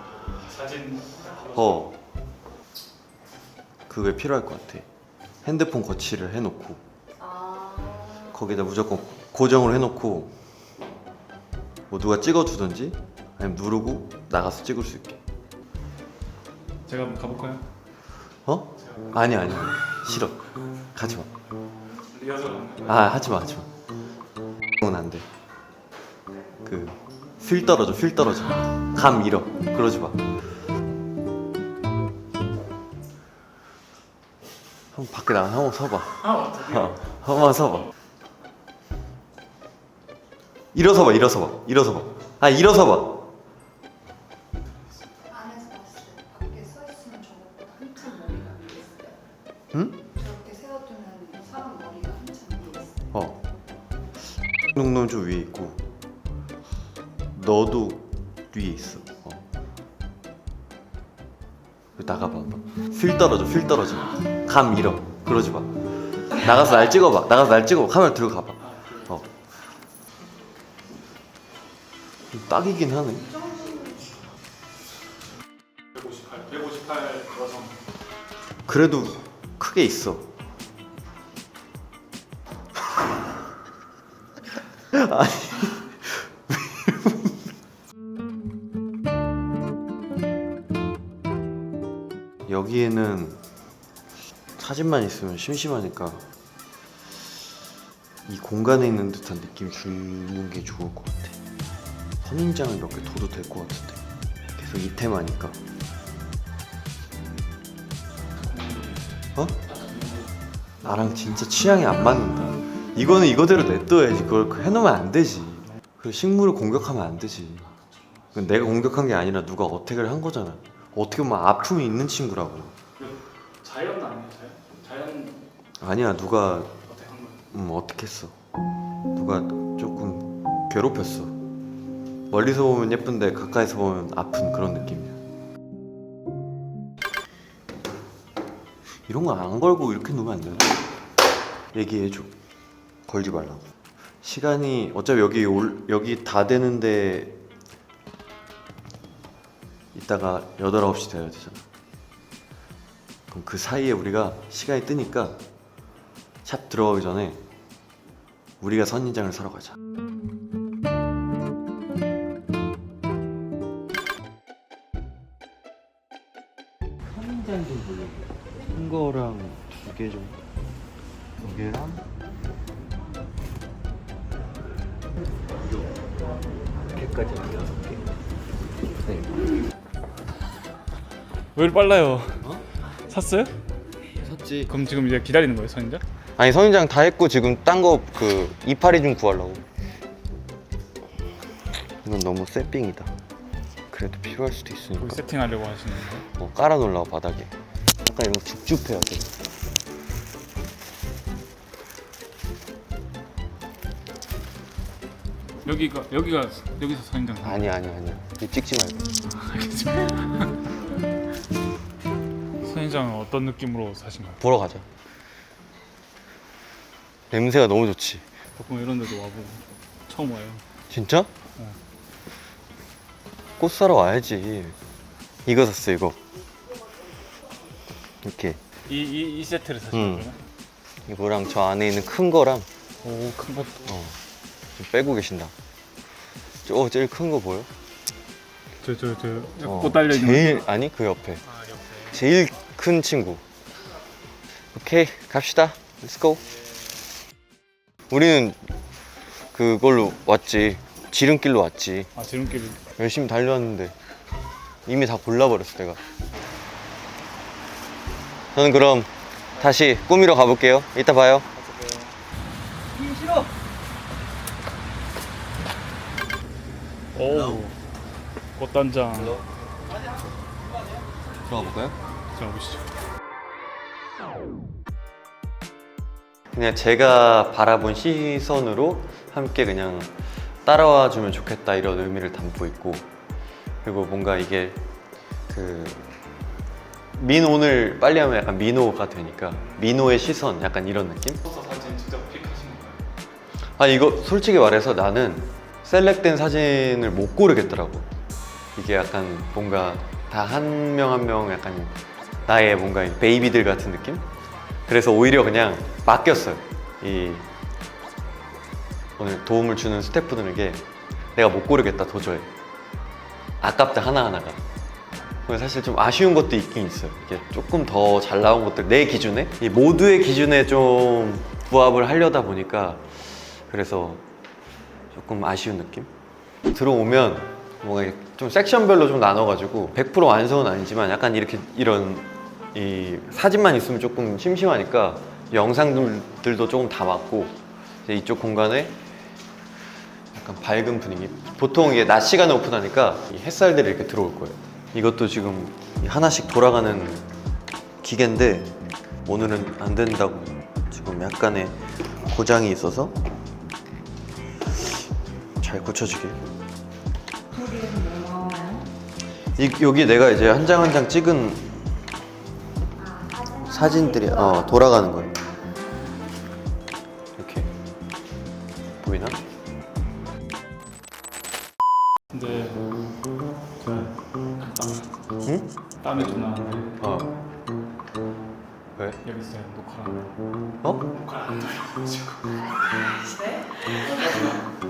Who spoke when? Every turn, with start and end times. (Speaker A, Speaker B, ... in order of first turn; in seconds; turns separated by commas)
Speaker A: 0.2-1.9, Speaker B: 1.5-1.9, Speaker B: 3.9-4.9, Speaker B: 5.4-6.8, Speaker C: 7.2-8.2, Speaker B: 8.2-10.3, Speaker B: 11.9-15.2, Speaker A: 16.9-17.6, Speaker B: 18.4-20.4, Speaker B: 20.9-21.3, Speaker A: 22.1-23.0, Speaker B: 22.9-23.7, Speaker B: 24.8-25.2, Speaker B: 26.6-30.3, Speaker B: 34.9-37.9, Speaker A: 36.2-37.0, Speaker B: 40.7-43.3, Speaker C: 45.3-49.1, Speaker B: 49.7-50.1, Speaker C: 50.2-52.9, Speaker B: 53.1-53.4, Speaker B: 54.7-55.8, Speaker B: 57.3-59.4, Speaker B: 62.0-69.3, Speaker A: 68.6-69.1, Speaker B: 72.3-73.4, Speaker A: 75.9-77.8, Speaker B: 78.7-80.3, Speaker B: 84.8-87.3, Speaker B: 92.5-93.4, Speaker B: 94.6-96.2, Speaker B: 98.2-101.3, Speaker B: 102.2-104.0, Speaker B: 104.5-105.6, Speaker A: 108.4-109.1, Speaker A: 109.7-110.2, Speaker B: 110.8-117.7, Speaker A: 117.8-118.3, Speaker B: 118.3-122.7, Speaker A: 123.0-125.4, Speaker B: 125.8-126.7, Speaker A: 126.9-127.4, Speaker B: 127.5-128.3, Speaker B: 129.1-131.3, Speaker B: 132.3-135.2, Speaker B: 139.1-140.8, Speaker B: 141.7-142.3, Speaker B: 143.1-143.7, Speaker B: 144.2-147.4, Speaker B: 149.9-151.6, Speaker B: 153.3-155.4, Speaker B: 156.4-157.4, Speaker B: 158.6-159.8, Speaker B: 167.1-170.4, Speaker B: 171.4-172.0, Speaker B: 176.9-178.1, Speaker B: 179.0-179.3, Speaker A: 181.5-182.4, Speaker A: 183.0-183.5, Speaker B: 184.2-184.7, Speaker A: 184.7-186.0, Speaker B: 186.4-189.6, Speaker B: 192.0-193.1, Speaker B: 193.9-195.2, Speaker A: 195.0-196.2, Speaker B: 196.3-197.5, Speaker B: 198.0-199.3, Speaker A: 205.6-207.7, Speaker B: 207.4-209.2, Speaker A: 209.3-210.7, Speaker A: 212.6-214.4, Speaker B: 214.4-214.8, Speaker B: 217.3-218.2, Speaker A: 218.6-220.6, Speaker B: 220.9-221.3, Speaker B: 223.6-224.8, Speaker B: 225.4-226.2, Speaker B: 228.2-228.6, Speaker A: 228.9-230.4, Speaker B: 229.9-230.3, Speaker B: 231.1-232.7, Speaker A: 233.0-233.9, Speaker B: 233.9-234.2, Speaker B: 234.7-235.5, Speaker B: 236.6-237.7, Speaker A: 238.8-240.6, Speaker B: 239.6-241.4, Speaker A: 241.5-242.1, Speaker B: 242.1-243.4, Speaker B: 244.7-246.4, Speaker B: 248.1-248.6, Speaker B: 249.5-252.1, Speaker A: 252.2-252.8, Speaker B: 252.9-253.9, Speaker B: 254.8-256.0, Speaker B: 258.5-261.4, Speaker A: 261.5-262.1, Speaker A: 267.1-267.8, Speaker A: 268.6-269.4, Speaker B: 271.5-271.9, Speaker A: 272.3-272.9, Speaker B: 276.5-283.1, Speaker B: 283.8-284.8, Speaker B: 285.5-286.1, Speaker B: 287.1-291.4, Speaker A: 291.4-293.0, Speaker B: 293.8-298.1, Speaker B: 298.8-304.3, Speaker B: 304.9-307.5, Speaker B: 309.2-312.5, Speaker B: 313.6-314.6, Speaker B: 315.4-323.1, Speaker B: 323.7-324.2, Speaker B: 325.1-326.1, Speaker B: 326.7-339.0, Speaker B: 340.3-347.3, Speaker B: 348.0-353.1, Speaker B: 355.6-356.4, Speaker C: 357.6-358.9, Speaker B: 359.5-361.7, Speaker C: 363.1-363.6, Speaker B: 363.5-365.5, Speaker B: 367.4-367.7, Speaker B: 369.0-369.4, Speaker A: 372.3-372.9, Speaker A: 373.8-375.1, Speaker B: 375.4-375.7, Speaker A: 376.0-377.0, Speaker B: 377.0-377.3, Speaker A: 379.2-380.3, Speaker B: 380.8-381.1, Speaker A: 381.1-384.7